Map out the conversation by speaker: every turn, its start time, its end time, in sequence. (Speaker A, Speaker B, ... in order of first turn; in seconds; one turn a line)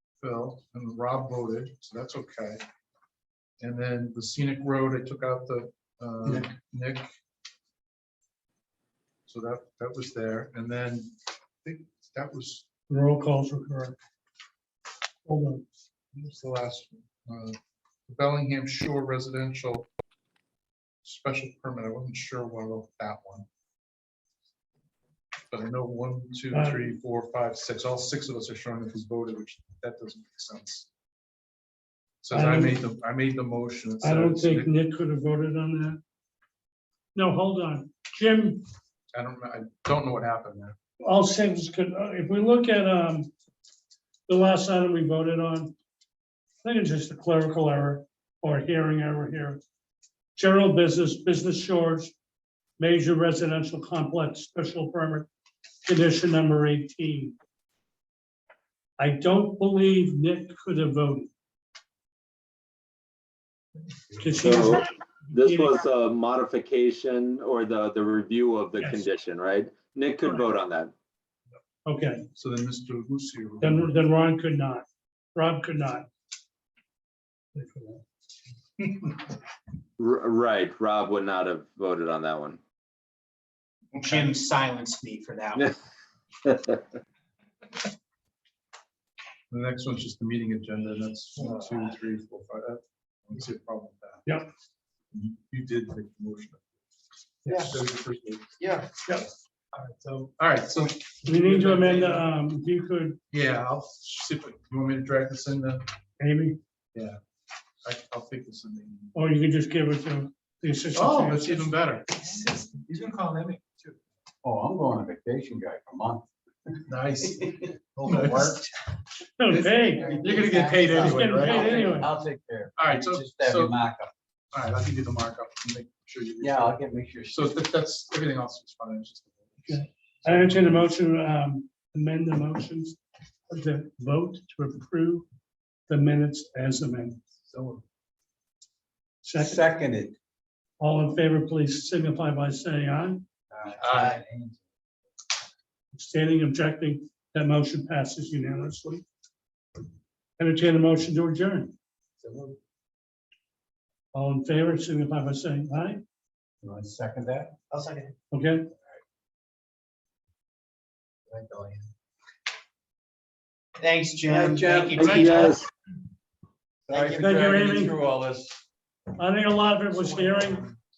Speaker A: 0.2-2.6
Speaker A: 3.6-7.1
Speaker A: 9.3-12.7
Speaker B: 12.9-13.9
Speaker B: 15.2-15.7
Speaker A: 16.1-19.9
Speaker A: 21.0-23.5
Speaker A: 25.5-30.9
Speaker B: 26.5-27.0
Speaker A: 32.2-34.7
Speaker B: 32.3-32.8
Speaker B: 34.0-36.0
Speaker B: 37.1-38.6
Speaker A: 39.1-40.8
Speaker B: 41.0-43.3
Speaker B: 44.3-45.7
Speaker B: 46.6-49.6
Speaker B: 50.3-52.1
Speaker B: 52.8-55.3
Speaker B: 55.8-57.4
Speaker B: 59.0-61.3
Speaker B: 64.2-65.8
Speaker C: 64.4-70.9
Speaker B: 71.8-72.2
Speaker A: 72.3-74.0
Speaker B: 73.6-76.1
Speaker B: 77.5-78.0
Speaker C: 80.0-82.6
Speaker D: 83.9-85.7
Speaker C: 86.4-86.8
Speaker A: 89.5-94.2
Speaker A: 95.1-96.6
Speaker A: 97.5-98.6
Speaker D: 97.5-97.8
Speaker D: 98.6-98.9
Speaker D: 99.7-100.3
Speaker A: 100.2-102.1
Speaker B: 101.2-103.2
Speaker A: 103.3-105.9
Speaker B: 106.2-106.6
Speaker A: 107.8-109.1
Speaker B: 109.1-111.7
Speaker A: 110.9-112.2
Speaker D: 112.2-113.2
Speaker A: 112.9-113.8
Speaker E: 114.4-116.2
Speaker A: 116.9-118.6
Speaker E: 117.2-118.7
Speaker B: 119.4-120.2
Speaker A: 119.5-121.9
Speaker E: 120.0-124.1
Speaker B: 121.0-122.1
Speaker A: 122.8-123.7
Speaker A: 124.5-130.9
Speaker E: 126.4-127.5
Speaker B: 129.7-133.0
Speaker B: 133.5-135.2
Speaker B: 135.9-137.2
Speaker E: 137.5-137.8
Speaker B: 139.2-139.7
Speaker E: 139.3-140.2
Speaker B: 140.8-143.2
Speaker E: 143.5-144.6
Speaker D: 143.8-144.2
Speaker A: 143.8-144.1
Speaker B: 145.9-149.0
Speaker B: 150.4-151.7
Speaker E: 152.2-152.6
Speaker B: 154.1-156.0
Speaker E: 156.6-157.6
Speaker D: 157.7-158.1
Speaker B: 158.3-158.7
Speaker E: 161.3-161.9
Speaker D: 163.8-165.6
Speaker E: 164.3-165.5
Speaker C: 164.9-165.6
Speaker E: 166.9-168.6
Speaker D: 166.9-167.3
Speaker B: 167.2-167.9
Speaker B: 169.2-170.7
Speaker D: 170.0-170.7